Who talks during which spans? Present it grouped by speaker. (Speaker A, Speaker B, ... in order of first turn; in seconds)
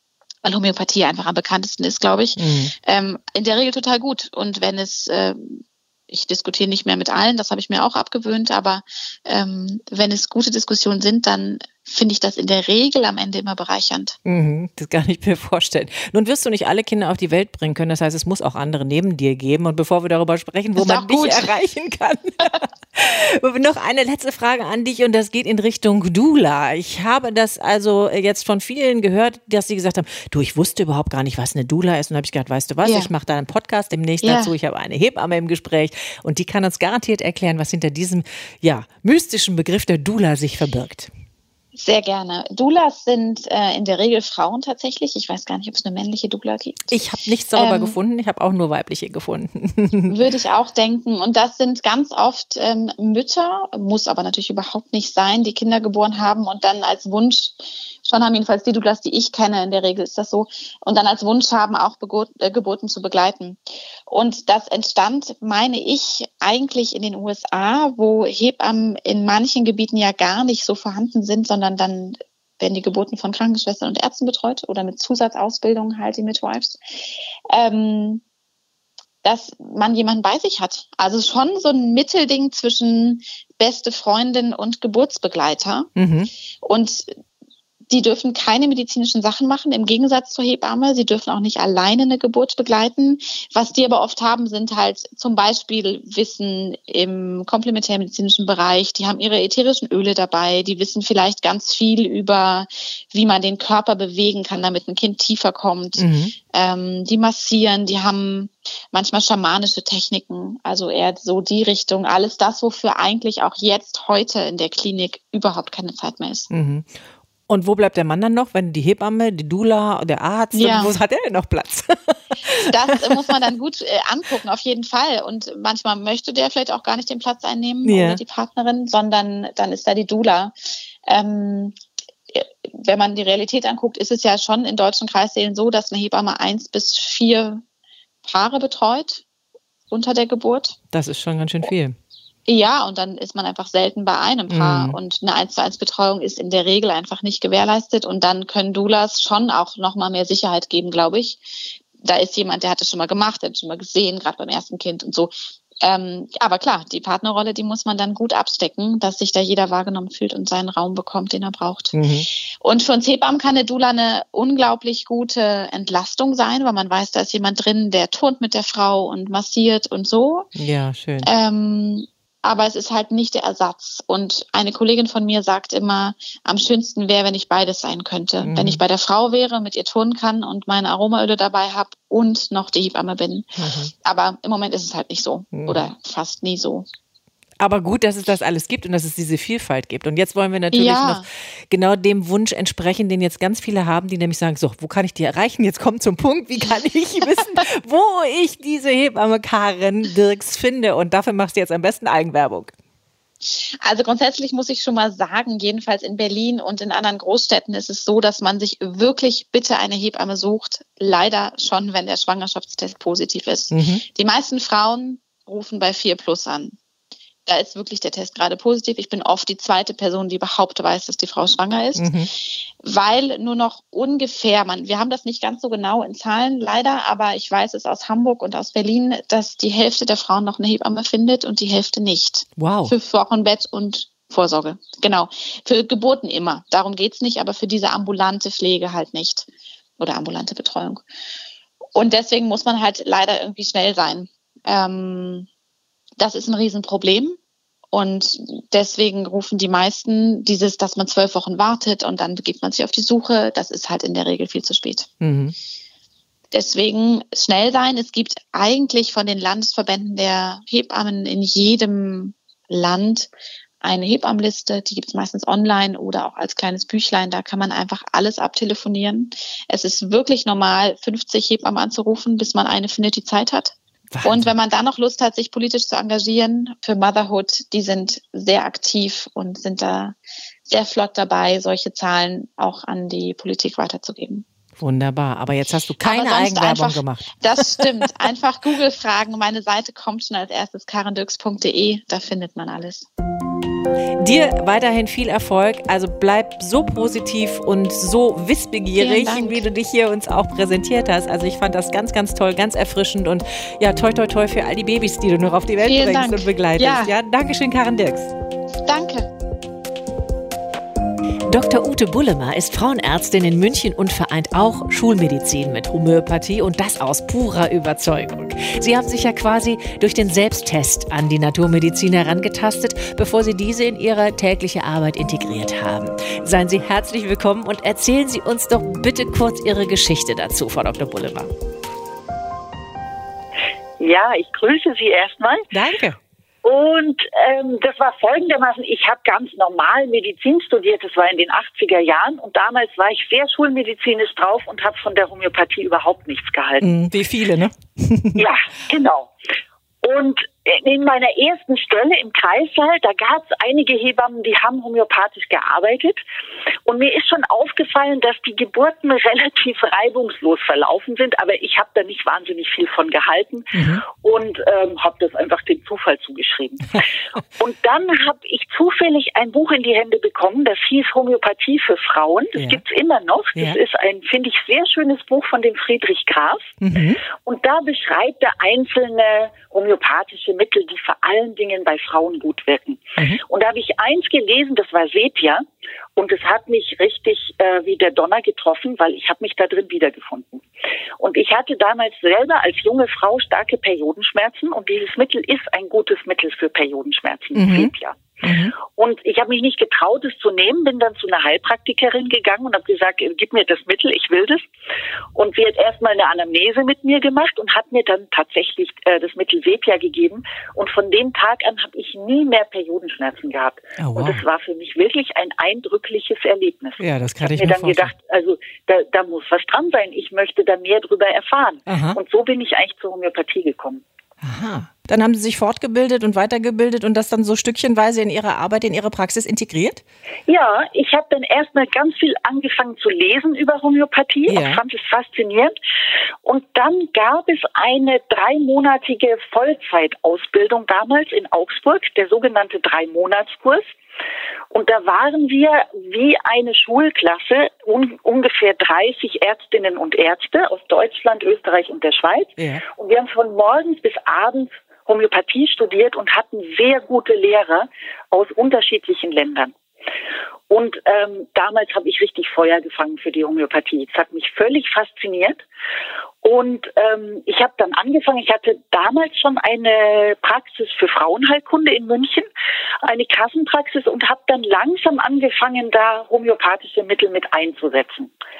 Speaker A: 0.4-14.2, 20.8-21.5, 32.8-33.1, 34.2-34.5, 41.7-47.0, 47.5-48.0, 50.1-78.2, 79.2-85.9, 86.6-87.1, 87.9-116.5, 120.5-120.9, 122.5-130.5, 131.1-131.7, 132.3-137.6, 138.2-139.2, 139.9-140.8, 142.5-162.0, 162.6-170.5, 171.2-186.8, 190.7-191.2, 203.8-216.8, 217.4-239.5, 240.0-241.0, 241.9-245.5, 246.2-247.4, 247.9-255.1, 256.5-263.3, 263.8-284.4, 286.0-293.1, 299.0-299.6, 305.8-307.1, 308.9-309.3
Speaker B: 2.4-2.7, 14.2-41.1, 46.9-50.1, 86.0-86.3, 106.0-106.3, 116.5-116.9, 117.5-123.1, 127.8-128.2, 140.9-141.9, 144.5-145.0, 161.9-162.3, 170.6-171.3, 178.4-178.8, 183.6-183.9, 185.5-185.8, 187.6-202.7, 213.7-214.0, 221.9-222.3, 232.6-232.9, 255.2-255.5, 274.1-274.5, 284.8-287.8, 294.2-308.3, 311.5-331.5, 335.7-336.2, 346.8-348.4, 363.7-364.0, 372.6-372.8, 376.8-377.2, 397.5-397.9, 398.4-398.7, 414.0-414.4, 417.0-418.1, 421.9-422.2, 424.4-430.0, 434.5-434.8, 452.6-452.8
Speaker C: 334.0-335.7, 336.6-346.9, 348.4-349.3, 350.0-356.2, 356.9-367.1, 367.6-376.7, 377.4-385.6, 386.1-390.6, 391.2-398.2, 398.9-404.6, 405.3-424.0, 430.5-435.8, 436.4-443.9, 444.7-459.7, 460.7-465.6, 466.4-472.5, 473.0-478.3